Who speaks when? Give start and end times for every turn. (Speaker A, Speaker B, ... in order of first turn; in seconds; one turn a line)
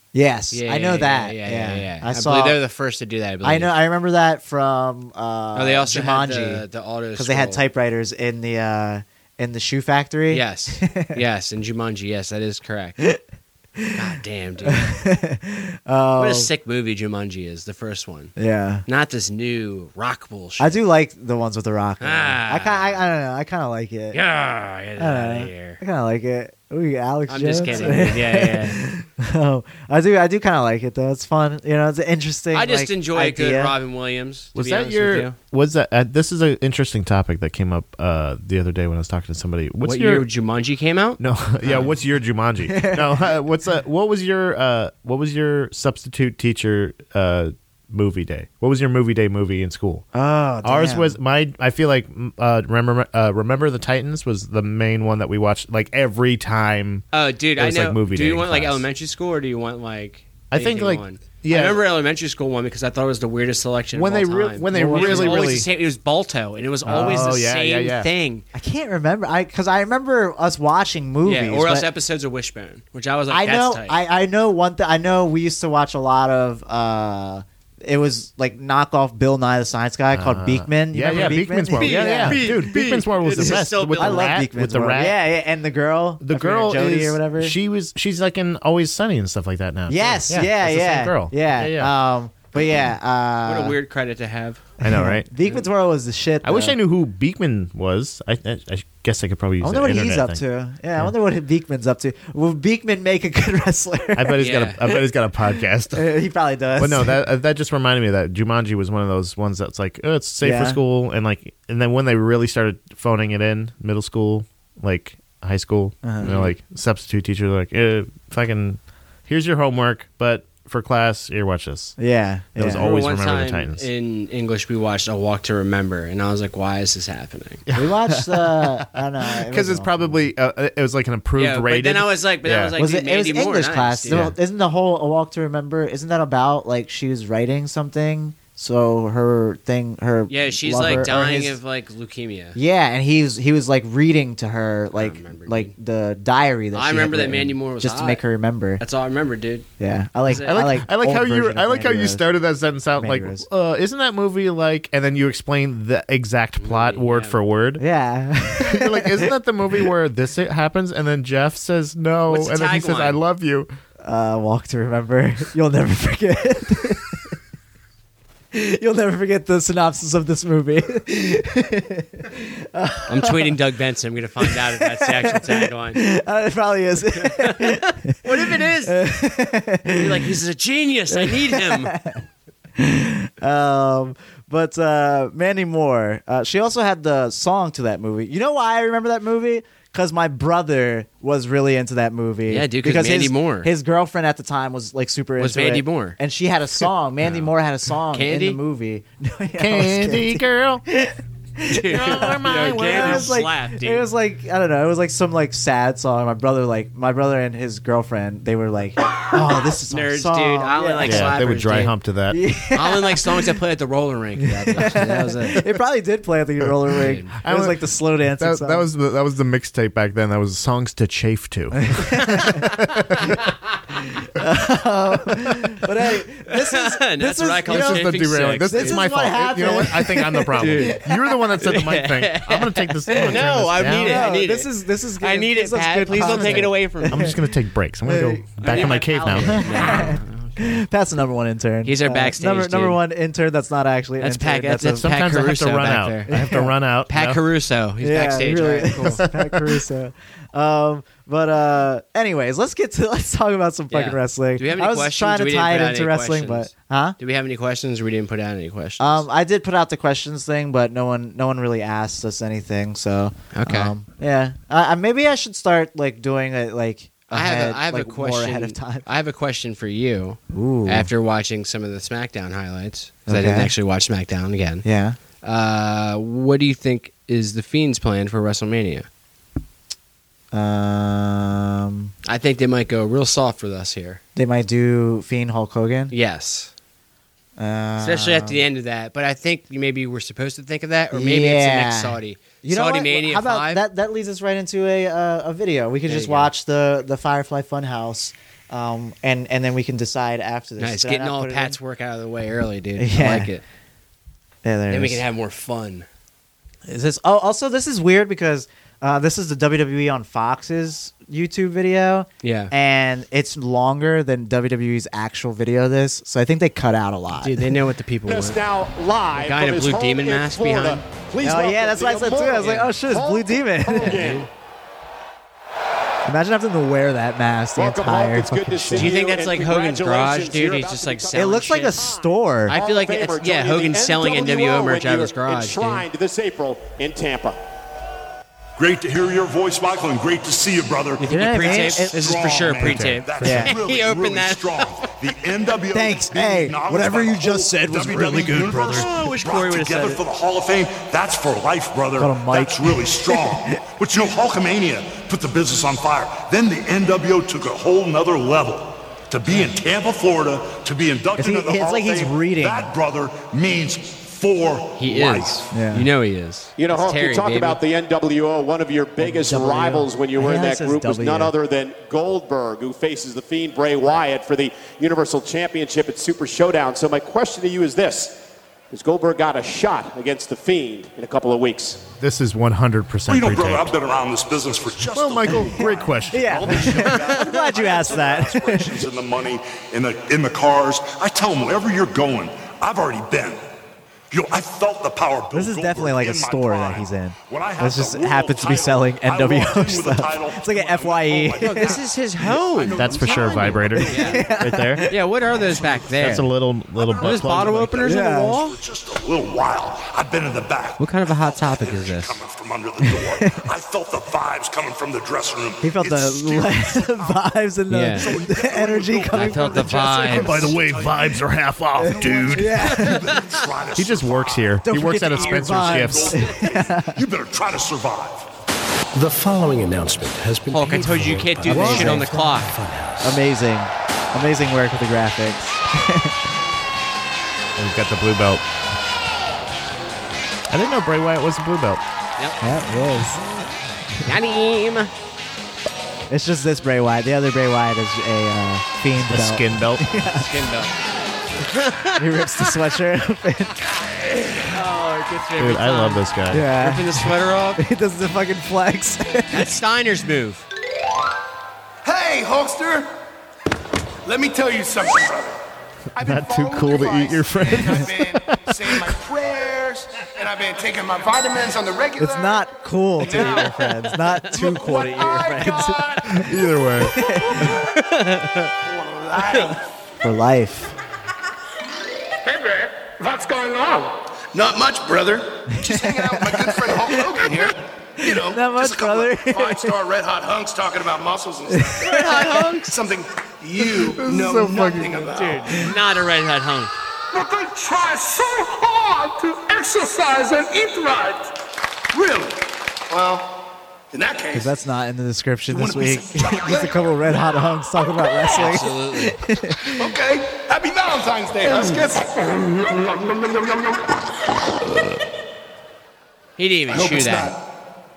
Speaker A: 0.1-2.6
Speaker B: 0.5-3.7
Speaker A: 3.4-6.7
Speaker B: 5.5-7.7
Speaker A: 7.2-11.2
Speaker B: 10.3-13.0
Speaker B: 13.9-14.9
Speaker A: 14.7-16.5
Speaker B: 16.2-18.3
Speaker A: 18.4-18.8
Speaker B: 18.8-20.8
Speaker A: 20.6-24.2
Speaker B: 22.0-23.0
Speaker B: 24.1-25.8
Speaker A: 25.0-33.7
Speaker B: 27.3-28.8
Speaker B: 32.5-35.4
Speaker C: 34.5-40.3
Speaker B: 39.8-41.9
Speaker C: 41.2-50.0
Speaker A: 41.6-42.0
Speaker A: 42.6-43.4
Speaker A: 50.1-51.2
Speaker C: 50.6-58.9
Speaker B: 57.1-68.5
Speaker C: 60.5-61.8
Speaker C: 64.0-65.7
Speaker A: 64.7-65.6
Speaker C: 66.8-68.1
Speaker A: 66.8-67.5
Speaker A: 68.5-71.9
Speaker B: 71.2-74.0
Speaker A: 73.3-82.5
Speaker C: 80.1-85.2
Speaker B: 81.8-84.5
Speaker A: 83.3-87.6
Speaker C: 86.2-91.9
Speaker A: 89.9-93.8
Speaker B: 93.5-94.6
Speaker C: 94.8-95.3
Speaker A: 94.8-96.8
Speaker C: 96.4-101.1
Speaker A: 99.6-104.4
Speaker C: 104.2-106.1
Speaker B: 104.4-104.8
Speaker A: 104.9-107.2
Speaker C: 106.8-122.0
Speaker A: 110.4-110.8
Speaker A: 116.0-116.4
Speaker B: 116.2-116.5
Speaker A: 122.0-122.8
Speaker C: 122.5-123.9
Speaker B: 122.8-127.7
Speaker C: 127.7-128.7
Speaker A: 127.7-130.3
Speaker C: 129.4-132.8
Speaker B: 131.3-134.3
Speaker A: 132.8-141.6
Speaker C: 134.1-134.4
Speaker B: 140.3-142.6
Speaker C: 140.8-141.1
Speaker A: 142.5-148.8
Speaker B: 144.9-145.7
Speaker B: 146.7-148.2
Speaker B: 148.8-149.7
Speaker A: 149.8-152.2
Speaker B: 150.2-150.7
Speaker C: 150.5-157.8
Speaker A: 153.0-153.5
Speaker B: 156.6-157.3
Speaker A: 157.8-159.9
Speaker C: 158.6-163.7
Speaker B: 162.3-163.2
Speaker A: 164.0-167.3
Speaker A: 168.5-173.6
Speaker B: 173.1-176.0
Speaker A: 174.4-180.3
Speaker B: 177.2-179.0
Speaker B: 179.9-181.9
Speaker A: 181.1-182.2
Speaker A: 182.8-211.4
Speaker B: 192.5-193.7
Speaker B: 195.4-196.2
Speaker B: 197.2-197.5
Speaker B: 198.1-198.6
Speaker C: 199.6-200.8
Speaker B: 201.7-204.1
Speaker C: 201.9-203.4
Speaker B: 209.9-211.9
Speaker C: 211.0-212.4
Speaker A: 212.3-213.6
Speaker B: 212.7-215.6
Speaker A: 214.4-218.8
Speaker C: 216.9-223.4
Speaker B: 217.0-217.3
Speaker A: 221.9-222.7
Speaker B: 223.2-223.8
Speaker A: 224.3-228.2
Speaker B: 226.5-229.1
Speaker C: 227.7-234.3
Speaker A: 228.7-231.1
Speaker B: 230.6-231.0
Speaker B: 231.6-237.4
Speaker A: 233.3-237.4
Speaker C: 236.2-240.1
Speaker A: 238.0-245.1
Speaker B: 238.6-240.8
Speaker B: 241.8-243.0
Speaker B: 244.2-246.3
Speaker C: 244.9-247.4
Speaker A: 246.3-246.7
Speaker B: 247.1-249.3
Speaker A: 248.0-257.1
Speaker C: 249.0-249.8
Speaker B: 253.9-259.3
Speaker A: 259.0-269.1
Speaker B: 263.5-263.9
Speaker B: 267.3-274.9
Speaker A: 270.5-271.1
Speaker A: 273.3-273.7
Speaker A: 274.8-275.2
Speaker B: 275.4-279.1
Speaker A: 280.5-282.1
Speaker B: 282.2-284.2
Speaker A: 284.4-286.1
Speaker B: 286.1-286.7
Speaker A: 287.6-288.7
Speaker B: 288.0-293.8
Speaker A: 291.1-301.8
Speaker B: 296.1-296.5
Speaker B: 300.8-303.6
Speaker A: 303.0-303.5
Speaker A: 304.6-305.2
Speaker B: 304.9-306.1
Speaker A: 306.8-317.8
Speaker B: 312.4-312.7
Speaker B: 317.4-318.6
Speaker D: 318.2-324.5
Speaker B: 319.3-321.0
Speaker A: 321.4-324.2
Speaker B: 322.6-322.9
Speaker B: 323.9-324.5
Speaker A: 326.2-329.1
Speaker D: 327.8-337.6
Speaker B: 328.9-332.1
Speaker A: 331.3-332.8
Speaker B: 332.7-336.0
Speaker E: 338.8-365.6
Speaker B: 341.2-345.1
Speaker A: 341.3-342.4
Speaker C: 342.8-343.2
Speaker A: 343.4-343.8
Speaker A: 345.9-349.1
Speaker B: 348.9-350.2
Speaker A: 352.2-353.8
Speaker A: 361.4-362.9
Speaker B: 364.9-367.8
Speaker A: 365.7-366.1
Speaker D: 366.8-382.0
Speaker A: 369.2-371.5
Speaker C: 382.2-383.9
Speaker E: 383.3-393.6
Speaker C: 385.1-387.1
Speaker A: 385.7-389.0
Speaker E: 394.3-404.6
Speaker A: 395.5-402.0
Speaker B: 401.6-404.4
Speaker C: 402.9-405.1
Speaker A: 404.2-405.1
Speaker B: 405.0-406.5
Speaker E: 405.4-406.3
Speaker C: 406.2-408.1
Speaker E: 406.9-417.4
Speaker B: 407.1-408.8
Speaker A: 408.1-408.6
Speaker B: 411.0-412.4
Speaker A: 413.1-413.7
Speaker A: 415.8-420.3
Speaker B: 417.9-418.3
Speaker E: 418.1-421.4
Speaker B: 419.3-420.7
Speaker C: 420.3-422.9
Speaker E: 422.0-428.4
Speaker A: 422.0-423.3
Speaker B: 422.9-423.6
Speaker C: 423.9-426.5
Speaker A: 424.8-427.2
Speaker F: 429.1-433.4
Speaker B: 430.7-432.7
Speaker A: 431.7-432.5
Speaker A: 433.2-436.4
Speaker C: 437.8-438.6
Speaker C: 440.7-442.0
Speaker A: 442.6-443.4
Speaker B: 444.2-445.1
Speaker A: 446.3-450.5
Speaker C: 449.2-450.2
Speaker B: 450.2-450.9
Speaker B: 451.6-452.8
Speaker A: 452.1-454.1
Speaker B: 454.7-457.8
Speaker C: 455.6-456.7
Speaker A: 456.5-459.7
Speaker B: 459.5-460.6
Speaker G: 462.0-463.1
Speaker G: 464.2-465.5
Speaker G: 466.1-472.6
Speaker C: 466.2-468.8
Speaker A: 472.2-476.4
Speaker G: 473.2-473.9
Speaker B: 473.2-474.6
Speaker G: 474.5-476.5
Speaker C: 476.3-477.2
Speaker A: 477.0-477.8
Speaker G: 477.2-477.8
Speaker B: 477.6-478.7
Speaker G: 478.8-479.8
Speaker A: 480.2-480.9
Speaker G: 482.4-495.9
Speaker F: 484.6-485.4
Speaker A: 485.7-487.7
Speaker A: 488.2-490.0
Speaker A: 491.7-492.7
Speaker B: 492.0-492.9
Speaker C: 493.9-495.3
Speaker B: 495.3-496.9
Speaker G: 497.3-501.6
Speaker G: 502.1-503.5
Speaker G: 504.1-504.7
Speaker A: 504.5-510.1
Speaker G: 505.7-507.0
Speaker B: 508.5-509.4
Speaker G: 509.8-514.2
Speaker B: 516.6-517.5
Speaker G: 516.9-517.6